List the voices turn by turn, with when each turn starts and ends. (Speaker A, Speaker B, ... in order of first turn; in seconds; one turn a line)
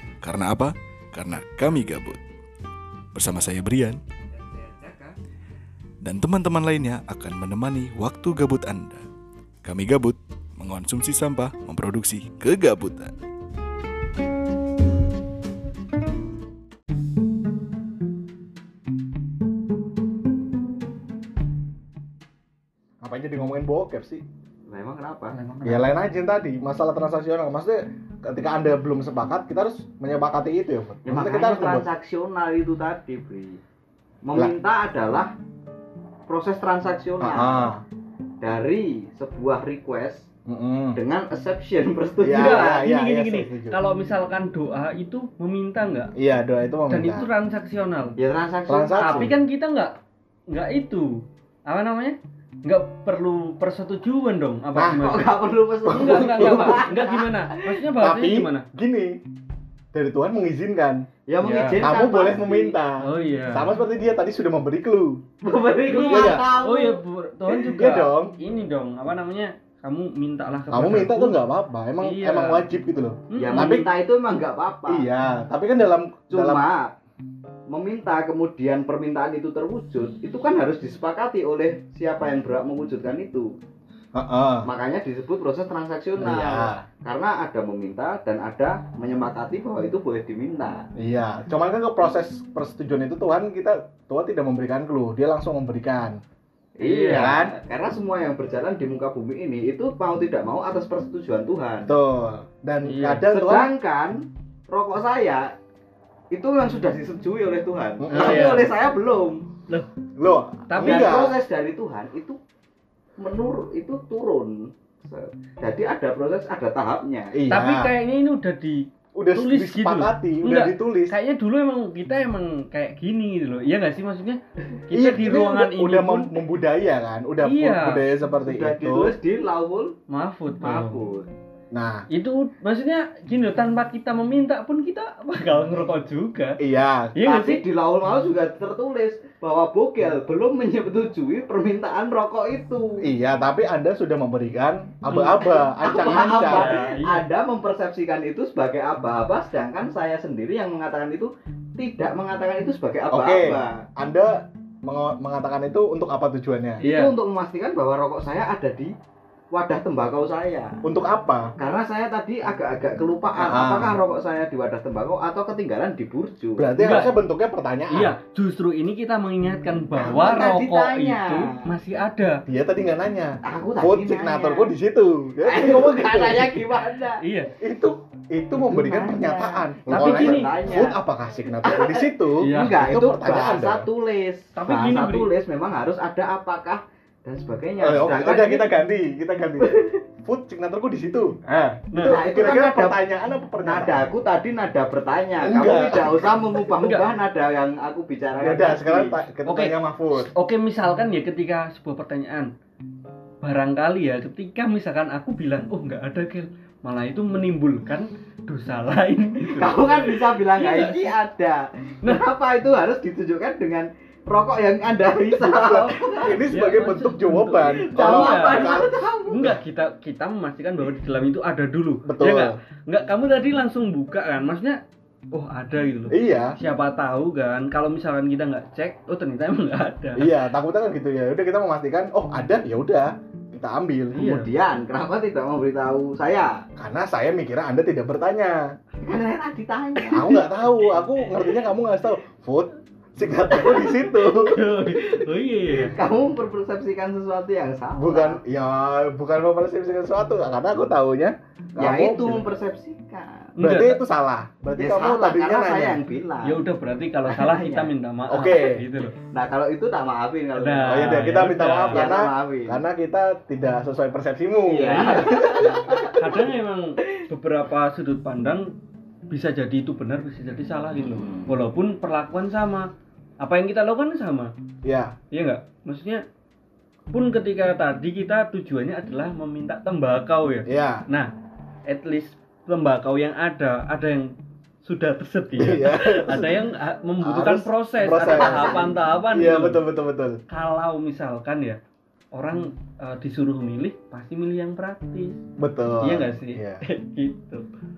Speaker A: 0.2-2.2
Speaker A: 3.1-4.0
Speaker B: 4.3-5.1
Speaker A: 6.0-9.0
Speaker A: 9.6-13.1
Speaker C: 23.0-24.2
Speaker B: 24.7-25.3
Speaker D: 25.3-25.9
Speaker C: 25.6-31.9
Speaker B: 31.0-33.6
Speaker B: 34.2-35.3
Speaker B: 36.3-37.7
Speaker C: 37.2-37.8
Speaker B: 38.4-40.3
Speaker C: 40.5-41.0
Speaker B: 40.9-42.8
Speaker C: 42.2-43.8
Speaker D: 42.3-46.1
Speaker C: 46.2-47.3
Speaker D: 46.9-48.1
Speaker B: 48.2-49.3
Speaker C: 48.7-49.3
Speaker D: 48.9-49.9
Speaker D: 50.5-58.7
Speaker C: 54.7-55.1
Speaker B: 55.0-57.7
Speaker C: 55.9-56.9
Speaker C: 58.0-59.2
Speaker C: 59.9-61.0
Speaker B: 61.3-62.8
Speaker D: 61.4-61.9
Speaker C: 61.8-65.2
Speaker D: 63.0-63.7
Speaker B: 65.4-67.0
Speaker D: 65.8-71.4
Speaker C: 66.0-66.5
Speaker C: 67.5-68.3
Speaker C: 70.7-73.9
Speaker D: 72.0-72.7
Speaker D: 73.3-73.9
Speaker B: 73.4-75.1
Speaker C: 74.9-76.6
Speaker B: 76.3-76.9
Speaker B: 77.7-83.5
Speaker C: 84.1-84.7
Speaker B: 84.6-90.8
Speaker C: 86.2-86.8
Speaker C: 91.0-96.2
Speaker B: 96.8-101.9
Speaker D: 96.8-97.4
Speaker C: 97.1-97.5
Speaker C: 101.8-103.7
Speaker D: 102.8-103.2
Speaker B: 103.2-104.2
Speaker B: 104.7-105.4
Speaker B: 106.3-109.4
Speaker C: 108.0-108.6
Speaker D: 108.1-108.7
Speaker C: 110.2-111.4
Speaker D: 110.7-111.1
Speaker B: 110.8-112.3
Speaker B: 113.2-117.4
Speaker C: 117.3-117.9
Speaker D: 117.5-118.8
Speaker C: 119.2-121.1
Speaker D: 119.3-126.4
Speaker C: 124.9-129.2
Speaker D: 127.4-128.1
Speaker B: 128.4-129.9
Speaker D: 130.1-131.0
Speaker B: 130.6-131.3
Speaker C: 131.7-132.0
Speaker D: 132.1-136.6
Speaker C: 136.6-137.2
Speaker D: 137.1-137.6
Speaker B: 137.2-142.9
Speaker C: 143.0-146.8
Speaker D: 145.1-147.2
Speaker B: 145.5-153.8
Speaker C: 153.1-156.8
Speaker D: 156.8-157.1
Speaker B: 156.8-158.9
Speaker B: 159.5-160.7
Speaker C: 160.8-161.5
Speaker B: 161.6-166.8
Speaker C: 163.4-164.0
Speaker C: 166.6-168.1
Speaker D: 166.8-167.2
Speaker D: 167.9-172.4
Speaker B: 169.9-171.6
Speaker C: 172.5-176.6
Speaker B: 173.4-174.7
Speaker B: 175.4-177.2
Speaker D: 177.2-177.5
Speaker C: 177.6-183.9
Speaker B: 178.7-181.0
Speaker D: 179.9-180.8
Speaker B: 181.6-188.8
Speaker D: 182.3-182.9
Speaker D: 184.5-185.3
Speaker C: 187.8-194.1
Speaker B: 189.6-190.0
Speaker D: 191.5-192.2
Speaker B: 192.0-193.0
Speaker B: 193.6-199.2
Speaker C: 195.4-196.5
Speaker D: 196.8-197.1
Speaker C: 198.4-200.3
Speaker D: 199.4-202.5
Speaker D: 203.4-211.1
Speaker B: 209.4-216.4
Speaker C: 215.3-218.9
Speaker D: 216.4-218.8
Speaker B: 217.8-219.5
Speaker D: 219.3-224.8
Speaker C: 222.0-222.5
Speaker D: 225.3-230.4
Speaker C: 226.1-226.5
Speaker C: 230.2-234.3
Speaker D: 234.1-234.5
Speaker B: 234.3-236.5
Speaker C: 236.8-238.6
Speaker B: 239.0-240.3
Speaker D: 240.0-241.6
Speaker C: 240.1-244.7
Speaker D: 243.7-245.9
Speaker B: 245.7-248.4
Speaker C: 247.9-252.5
Speaker B: 251.8-253.5
Speaker D: 253.6-254.0
Speaker C: 253.6-256.0
Speaker B: 254.8-256.6
Speaker D: 256.4-259.1
Speaker B: 257.2-257.9
Speaker C: 258.3-258.8
Speaker B: 259.2-261.2
Speaker D: 260.6-262.1
Speaker C: 260.8-266.1
Speaker B: 261.9-262.8
Speaker B: 264.6-266.2
Speaker D: 264.8-265.5
Speaker D: 266.0-268.7
Speaker D: 269.3-272.9
Speaker B: 271.0-271.6
Speaker D: 273.4-274.5
Speaker C: 274.8-275.1
Speaker D: 275.3-276.2
Speaker D: 277.1-281.3
Speaker C: 280.7-281.0
Speaker D: 281.9-284.3
Speaker D: 284.8-289.8
Speaker C: 285.6-286.6
Speaker C: 287.2-290.4
Speaker B: 288.2-288.9
Speaker D: 290.5-291.8
Speaker D: 292.3-295.4
Speaker C: 295.6-296.8
Speaker D: 296.0-297.6